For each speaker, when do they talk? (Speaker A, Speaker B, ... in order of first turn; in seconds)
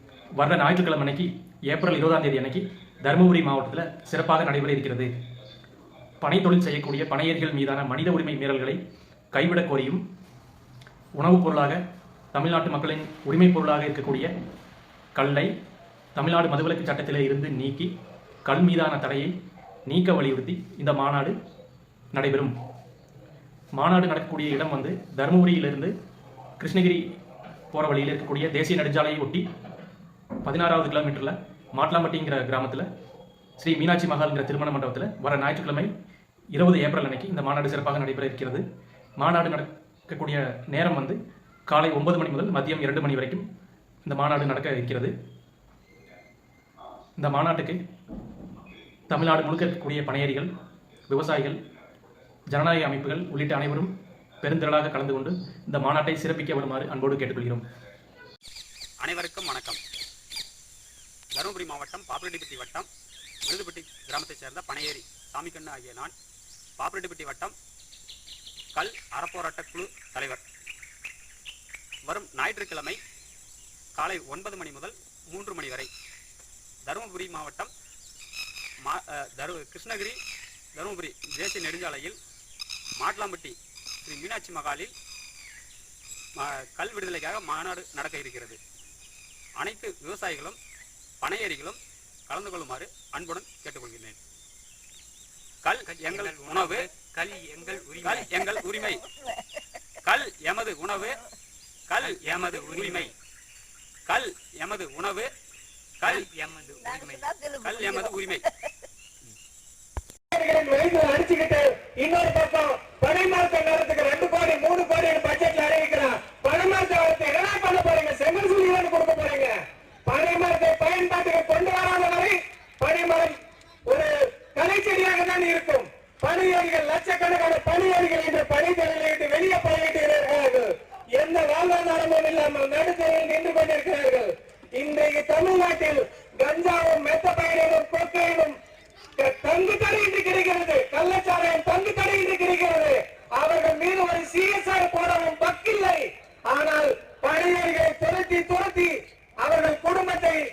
Speaker A: 0.4-5.1, 6.2-8.8, 9.3-10.0, 11.2-11.8, 12.3-14.3, 15.2-15.5, 16.1-17.9, 18.4-19.3, 19.9-21.3, 22.1-22.5, 23.8-25.9, 26.6-27.0, 27.7-29.4, 30.4-32.9, 33.6-35.9, 36.5-38.6, 39.2-41.2, 41.7-43.4, 44.0-45.1, 47.2-47.8, 49.1-50.5, 51.1-51.6, 52.5-53.9, 54.4-57.6
Speaker B: 59.0-59.8, 61.3-62.9, 63.4-66.1, 66.8-67.5, 68.7-70.4, 72.0-73.0, 74.0-75.9, 76.8-77.7, 78.8-80.2, 80.7-82.2, 83.0-84.9, 86.3-88.6, 89.6-90.6, 91.2-94.2, 95.6-96.9, 98.0-99.0, 100.0-101.2, 101.9-103.1, 104.1-105.3, 106.0-106.3, 107.6-108.5
Speaker C: 95.8-99.0, 102.0-103.1, 106.0-108.2
Speaker D: 110.3-119.5, 120.0-138.5, 139.2-150.4